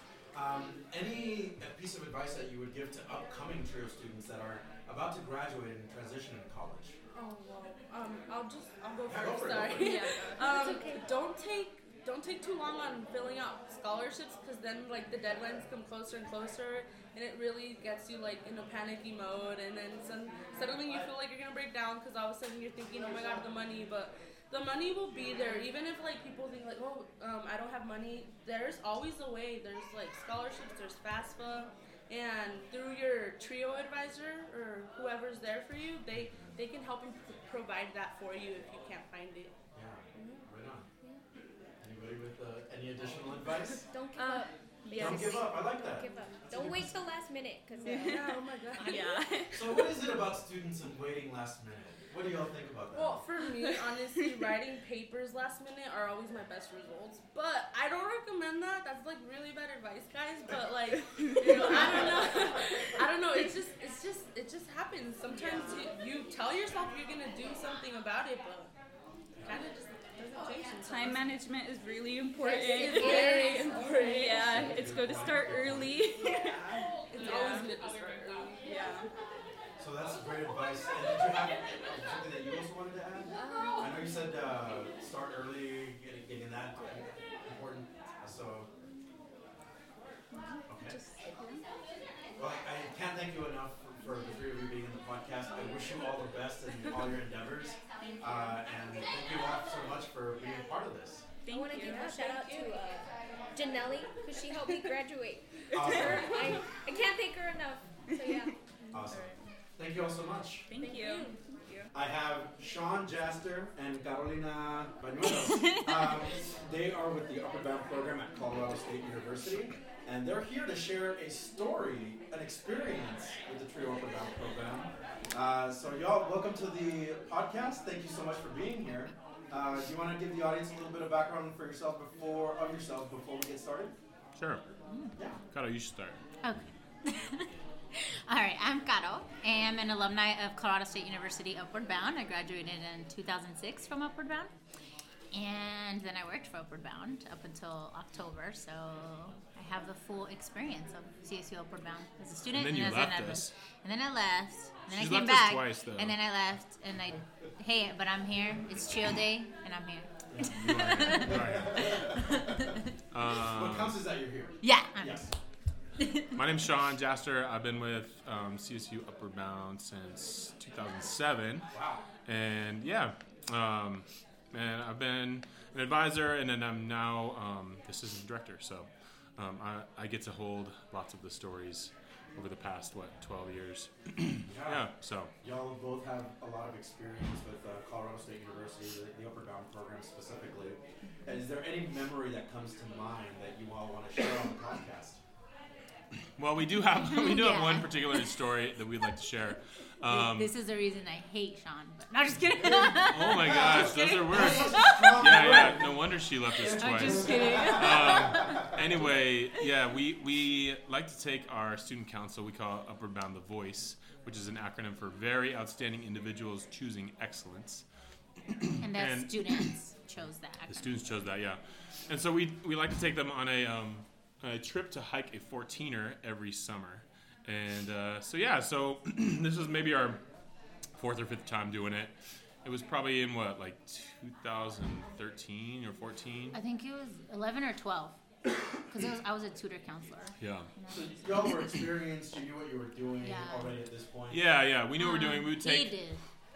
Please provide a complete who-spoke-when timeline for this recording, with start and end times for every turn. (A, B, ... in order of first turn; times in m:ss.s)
0:00.3-0:07.0 A
0:07.1-0:39.5 B
0:09.1-0:10.2 A
0:09.8-0:10.7 C
0:10.4-0:11.0 D
0:36.1-0:36.6 A
0:39.7-0:40.9 A
0:40.2-0:40.4 B
0:41.8-0:43.8 A
0:43.9-0:49.2 D
0:44.2-0:44.5 C
0:44.2-0:45.5 B
0:45.0-0:47.1 A
0:47.8-0:49.2 B
0:47.8-0:49.8 C
0:49.5-0:53.2 A
0:52.9-1:08.7 B
0:53.4-0:54.4 C
1:01.2-1:02.2 C
1:05.4-1:05.7 D
1:09.4-1:11.4 B
1:10.8-1:17.9 C
1:12.4-1:14.6 D
1:12.4-1:14.8 B
1:14.4-1:16.0 A
1:17.1-1:18.9 B
1:18.6-1:19.1 C
1:19.8-1:28.7 A
1:23.4-1:23.9 C
1:23.4-1:24.1 B
1:30.7-1:31.0 A
1:30.8-1:31.6 C
1:32.4-1:41.3 A
1:38.2-1:38.5 C
1:41.4-1:42.7 C
1:41.5-1:49.0 D
1:41.8-1:42.6 B
1:45.7-1:46.6 A
1:45.8-1:46.6 C
1:48.1-1:48.5 C
1:48.9-1:50.7 A
1:50.7-1:51.9 C
1:50.8-1:51.4 B
1:50.9-1:51.3 D
1:51.9-2:13.9 A
2:14.4-2:14.6 E
2:15.5-2:16.2 E
2:16.4-2:17.5 F
2:18.3-2:24.5 F
2:25.3-2:42.7 F
2:32.3-2:33.5 E
2:34.9-2:36.2 E
2:40.4-2:42.0 E
2:41.0-2:42.5 A
2:43.1-2:44.0 E
2:43.4-2:45.3 A
2:44.6-2:45.3 F
2:46.4-2:51.7 E
2:51.7-2:52.0 A
2:52.2-3:05.3 E
3:04.5-3:15.2 A
3:16.4-3:20.6 E
3:17.0-3:18.4 F
3:20.1-3:25.1 F
3:22.6-3:37.9 E
3:23.4-3:28.7 A
3:26.7-3:29.1 F
3:38.6-3:39.8 E
3:38.8-3:40.9 F
3:40.7-3:50.2 E
3:51.0-3:56.6 E
3:56.5-3:58.2 F
3:58.9-4:01.0 F
4:00.4-4:00.7 E
4:00.9-4:04.4 A
4:03.2-4:03.8 F
4:04.3-4:06.0 E
4:05.0-4:06.2 F